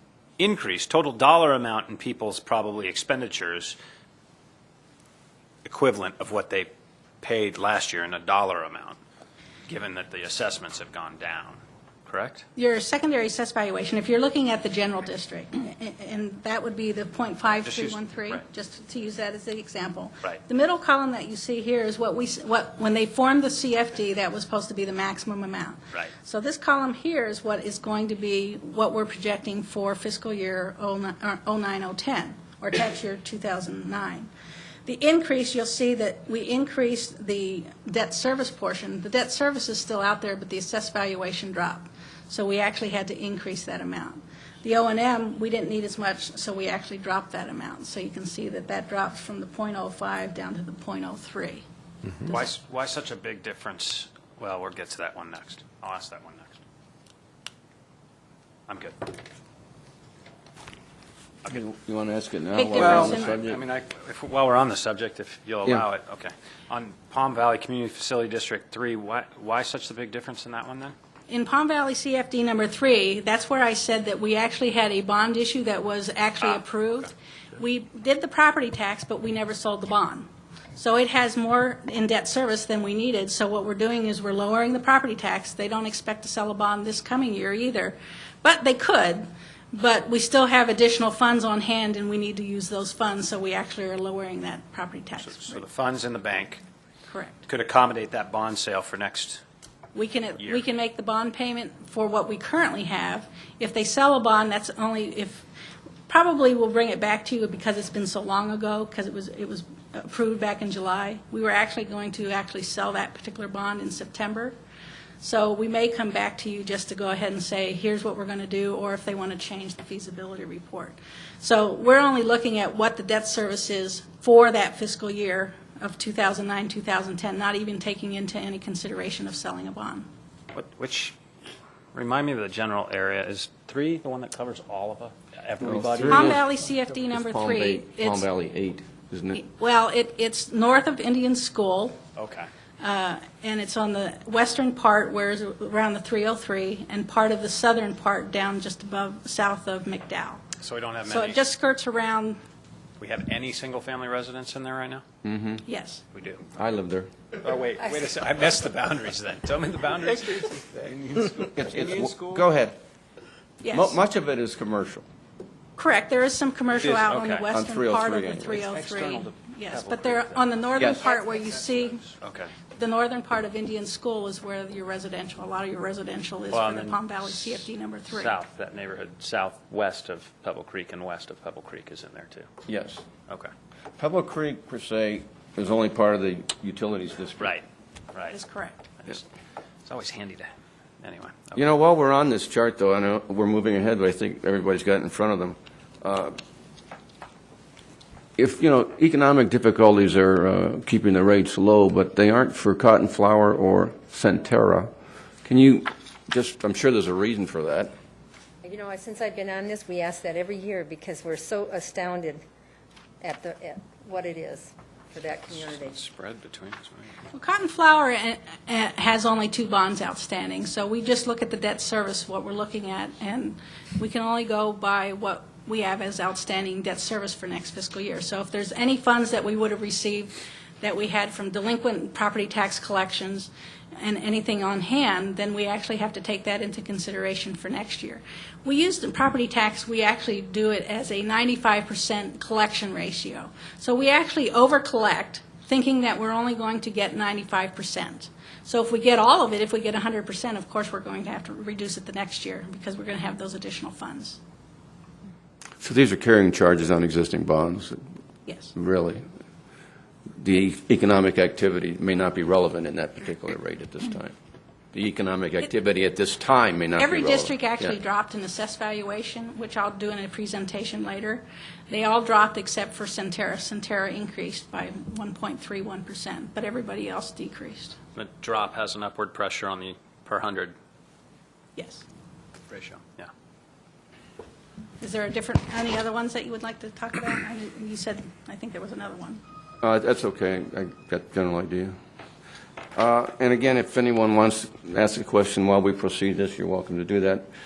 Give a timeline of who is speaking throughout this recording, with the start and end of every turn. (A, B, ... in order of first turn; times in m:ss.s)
0:00.4-0:03.8 A
0:05.6-0:06.7 A
0:07.2-0:09.0 A
0:09.7-0:12.4 A
0:12.6-0:34.3 B
0:17.6-0:18.4 A
0:34.8-0:51.6 B
0:52.2-0:56.6 A
0:58.7-0:59.1 A
1:01.4-1:03.6 C
1:02.5-1:03.4 B
1:02.7-1:10.9 A
1:11.3-1:35.6 B
1:35.2-1:36.6 A
1:37.1-1:37.4 B
1:37.5-1:39.4 A
1:39.9-1:45.4 B
1:46.1-1:54.5 B
1:55.2-2:10.1 B
2:10.5-2:11.2 A
2:11.9-2:16.4 A
2:15.6-2:16.5 C
2:16.0-2:18.3 B
2:17.1-2:19.4 C
2:19.3-2:22.0 B
2:22.2-2:22.5 A
2:22.8-2:30.4 B
2:30.6-2:31.4 A
2:31.0-2:32.4 B
2:33.0-2:35.0 A
2:35.2-2:35.6 C
2:35.6-2:36.0 B
2:36.1-2:36.4 A
2:36.6-2:37.1 C
2:37.4-2:42.4 A
2:41.6-2:42.8 C
2:43.6-2:44.0 B
2:43.7-2:45.0 C
2:45.8-2:52.0 B
2:46.7-2:47.5 A
2:47.5-2:48.6 C
2:48.5-2:50.4 A
2:50.8-2:51.1 C
2:51.3-2:52.5 A
2:52.7-2:58.4 B
2:56.5-2:57.0 A
2:58.1-3:02.5 A
3:02.7-3:03.0 C
3:04.0-3:07.5 C
3:07.4-3:08.4 A
3:08.3-3:08.9 B
3:09.8-3:11.6 A
3:11.5-3:16.4 C
3:18.4-3:24.9 C
3:25.4-3:27.9 C
3:28.6-3:32.4 D
3:33.2-3:36.0 D
3:35.5-3:37.2 A
3:37.3-4:14.4 B
4:15.8-4:18.0 C
4:18.5-4:18.7 B
4:18.7-4:19.2 C
4:20.4-4:24.3 C
4:24.9-4:28.0 C
4:27.0-4:38.0 B
4:38.1-4:40.7 A
4:41.8-4:42.0 B
4:42.7-4:43.3 A
4:45.0-4:49.4 B
4:49.8-4:51.9 C
4:53.0-4:57.5 C